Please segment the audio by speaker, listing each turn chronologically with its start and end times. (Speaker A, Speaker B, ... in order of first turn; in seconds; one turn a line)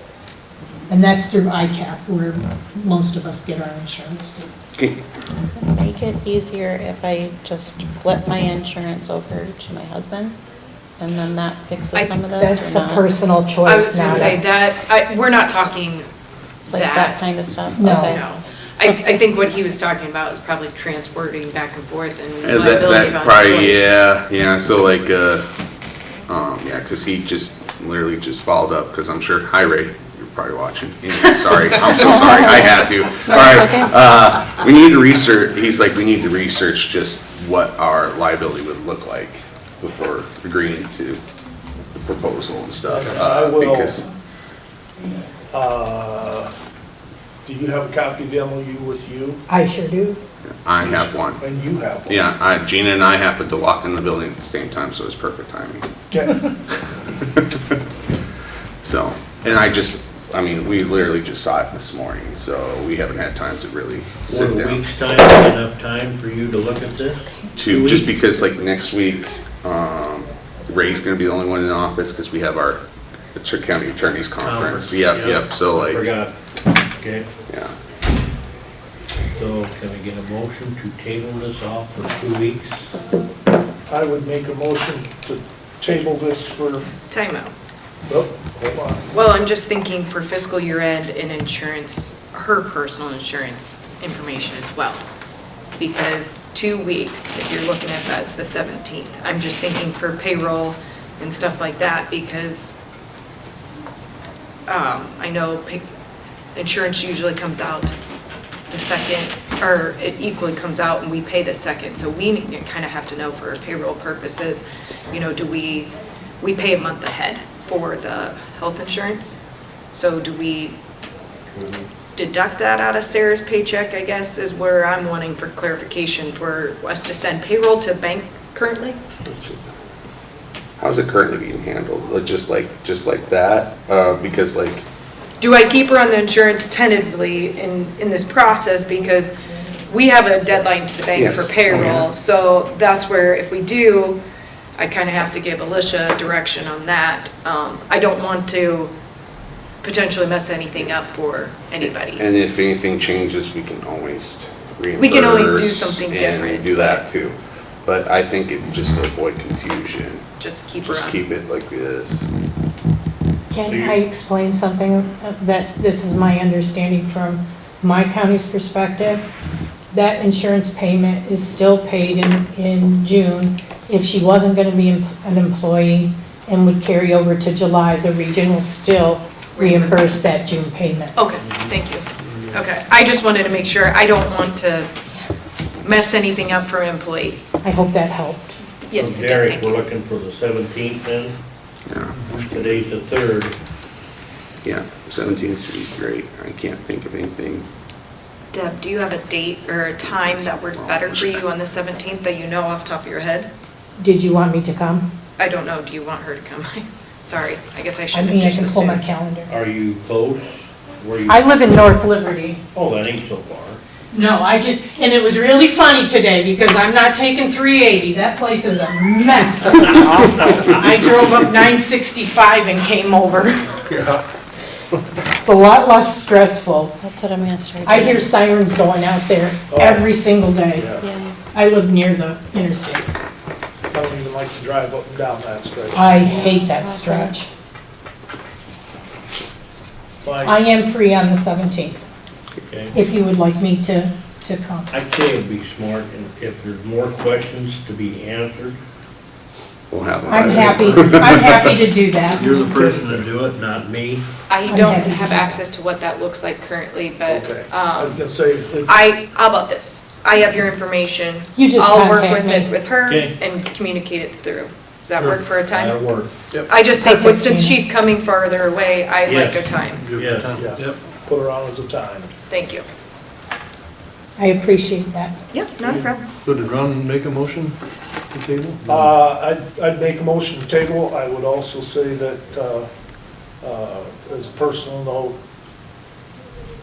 Speaker A: 0.9-4.5
Speaker B: 4.8-5.0
Speaker C: 5.5-10.3
Speaker C: 11.0-13.1
Speaker D: 11.9-12.2
Speaker A: 12.4-14.4
Speaker D: 13.6-16.1
Speaker C: 16.7-18.2
Speaker D: 16.7-17.2
Speaker A: 17.7-18.1
Speaker D: 17.8-23.8
Speaker B: 22.4-25.4
Speaker B: 26.3-41.2
Speaker B: 42.0-44.0
Speaker E: 42.9-44.0
Speaker E: 45.5-46.5
Speaker E: 47.4-49.4
Speaker A: 49.5-50.2
Speaker B: 50.4-51.4
Speaker E: 50.8-52.2
Speaker B: 52.1-55.9
Speaker E: 56.1-56.5
Speaker B: 57.2-57.7
Speaker B: 58.8-64.8
Speaker F: 64.3-68.1
Speaker B: 67.5-72.8
Speaker B: 73.3-76.0
Speaker F: 74.4-77.3
Speaker F: 79.3-82.9
Speaker E: 83.9-86.9
Speaker D: 87.1-87.5
Speaker E: 88.1-89.2
Speaker D: 89.1-95.0
Speaker D: 95.8-102.8
Speaker D: 104.7-105.8
Speaker D: 106.5-108.0
Speaker D: 108.7-119.3
Speaker D: 119.9-120.7
Speaker F: 121.5-121.9
Speaker D: 122.1-129.0
Speaker F: 129.2-129.7
Speaker B: 130.8-134.8
Speaker D: 135.4-139.3
Speaker D: 139.9-144.2
Speaker B: 141.1-142.1
Speaker D: 144.8-148.9
Speaker D: 149.8-152.2
Speaker B: 151.8-160.2
Speaker D: 155.0-157.0
Speaker D: 160.4-161.2
Speaker B: 160.8-162.2
Speaker A: 163.5-169.2
Speaker F: 163.6-164.0
Speaker A: 169.9-181.2
Speaker D: 179.6-180.0
Speaker D: 181.1-184.9
Speaker F: 181.4-181.7
Speaker D: 185.8-187.4
Speaker A: 187.6-188.6
Speaker D: 188.9-189.9
Speaker F: 188.9-191.4
Speaker B: 191.9-192.1
Speaker G: 192.1-192.7
Speaker F: 192.4-193.5
Speaker B: 194.6-197.7
Speaker D: 198.5-203.5
Speaker B: 200.2-201.4
Speaker A: 204.0-205.1
Speaker D: 205.4-209.0
Speaker A: 208.1-209.5
Speaker F: 209.5-211.4
Speaker A: 211.2-212.6
Speaker F: 212.7-213.8
Speaker A: 214.1-223.8
Speaker E: 223.9-224.2
Speaker A: 225.3-226.9
Speaker F: 227.0-228.2
Speaker A: 227.8-231.0
Speaker E: 229.7-230.1
Speaker E: 230.7-231.1
Speaker F: 231.0-231.3
Speaker A: 231.5-233.1
Speaker E: 233.9-236.5
Speaker A: 235.9-237.5
Speaker F: 236.1-237.3
Speaker E: 240.2-240.6
Speaker A: 240.4-242.0
Speaker F: 242.7-242.9
Speaker A: 242.9-244.9
Speaker F: 244.9-248.8
Speaker B: 249.9-251.7
Speaker A: 250.3-252.5
Speaker F: 250.4-251.2
Speaker G: 252.3-253.3
Speaker F: 252.3-254.2
Speaker D: 254.5-258.2
Speaker A: 254.7-255.6
Speaker E: 257.3-259.0
Speaker D: 258.9-266.0
Speaker A: 261.6-262.7
Speaker F: 263.0-263.4
Speaker F: 265.7-266.3
Speaker D: 266.6-270.1
Speaker A: 267.0-267.8
Speaker F: 269.2-269.6
Speaker G: 269.7-271.0
Speaker F: 270.1-270.6
Speaker E: 270.5-272.3
Speaker D: 272.5-272.9
Speaker A: 274.4-275.3
Speaker D: 275.5-276.2
Speaker G: 276.4-277.8
Speaker G: 278.3-279.1
Speaker E: 278.9-282.9
Speaker E: 283.6-285.4